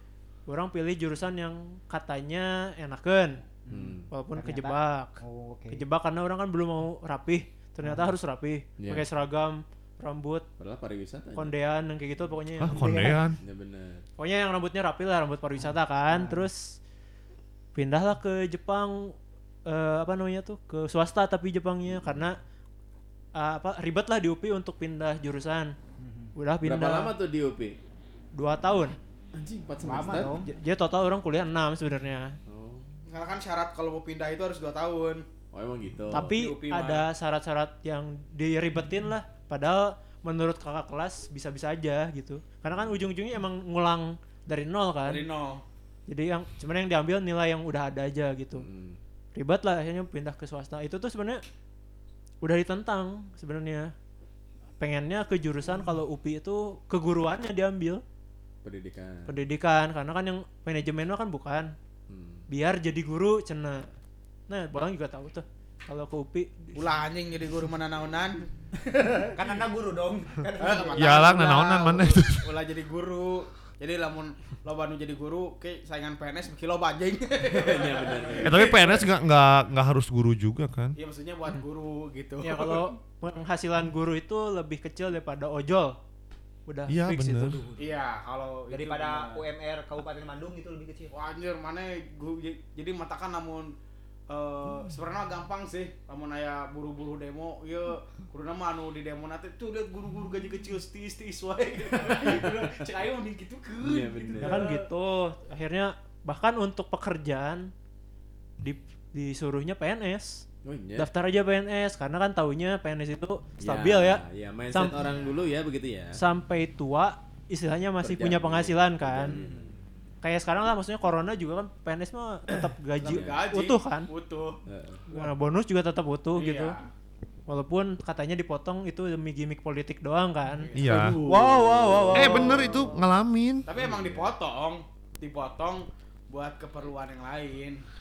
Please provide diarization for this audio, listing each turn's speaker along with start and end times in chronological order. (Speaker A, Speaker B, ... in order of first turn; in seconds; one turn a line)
Speaker A: 0.5-3.4
Speaker B: 3.7-5.8
Speaker C: 3.7-4.1
Speaker A: 4.1-5.2
Speaker A: 5.7-10.4
Speaker C: 8.8-9.1
Speaker C: 10.6-11.5
Speaker A: 11.4-13.1
Speaker D: 12.6-13.4
Speaker B: 12.7-13.2
Speaker C: 13.4-14.0
Speaker A: 14.2-16.8
Speaker B: 16.1-16.5
Speaker A: 17.7-19.1
Speaker A: 19.6-22.4
Speaker A: 23.4-25.8
Speaker B: 26.0-26.3
Speaker A: 26.4-27.1
Speaker C: 26.6-27.8
Speaker A: 28.4-29.0
Speaker C: 29.3-30.4
Speaker B: 29.8-30.5
Speaker A: 30.1-32.4
Speaker C: 32.5-32.9
Speaker E: 33.1-35.3
Speaker C: 35.5-36.4
Speaker A: 36.1-45.2
Speaker E: 36.3-37.1
Speaker E: 45.1-45.6
Speaker A: 46.1-48.6
Speaker C: 48.6-49.0
Speaker A: 49.4-51.4
Speaker A: 52.4-53.9
Speaker A: 54.8-58.0
Speaker C: 58.6-59.3
Speaker A: 59.3-61.7
Speaker C: 62.1-62.5
Speaker A: 62.5-63.9
Speaker A: 64.5-66.8
Speaker E: 66.7-69.4
Speaker B: 69.3-71.2
Speaker E: 70.6-79.1
Speaker D: 70.9-72.5
Speaker C: 77.5-78.6
Speaker D: 78.4-81.0
Speaker E: 81.0-82.9
Speaker A: 82.4-86.0
Speaker A: 86.7-87.8
Speaker D: 86.9-87.7
Speaker E: 87.7-89.4
Speaker B: 88.7-91.1
Speaker E: 91.1-93.7
Speaker E: 94.3-104.9
Speaker C: 102.2-102.6
Speaker C: 103.8-104.6
Speaker A: 104.4-107.7
Speaker A: 108.6-115.0
Speaker C: 110.6-111.1
Speaker C: 113.6-116.2
Speaker A: 116.1-119.4
Speaker C: 118.0-119.8
Speaker E: 119.3-119.6
Speaker A: 120.2-124.1
Speaker C: 122.5-123.4
Speaker E: 123.0-124.6
Speaker C: 124.7-125.0
Speaker A: 125.1-126.8
Speaker E: 126.4-126.9
Speaker A: 127.5-130.7
Speaker E: 130.6-131.2
Speaker D: 130.7-131.2
Speaker C: 130.7-132.9
Speaker B: 131.2-132.9
Speaker D: 132.1-133.7
Speaker E: 132.2-132.9
Speaker E: 133.7-137.8
Speaker C: 133.7-134.3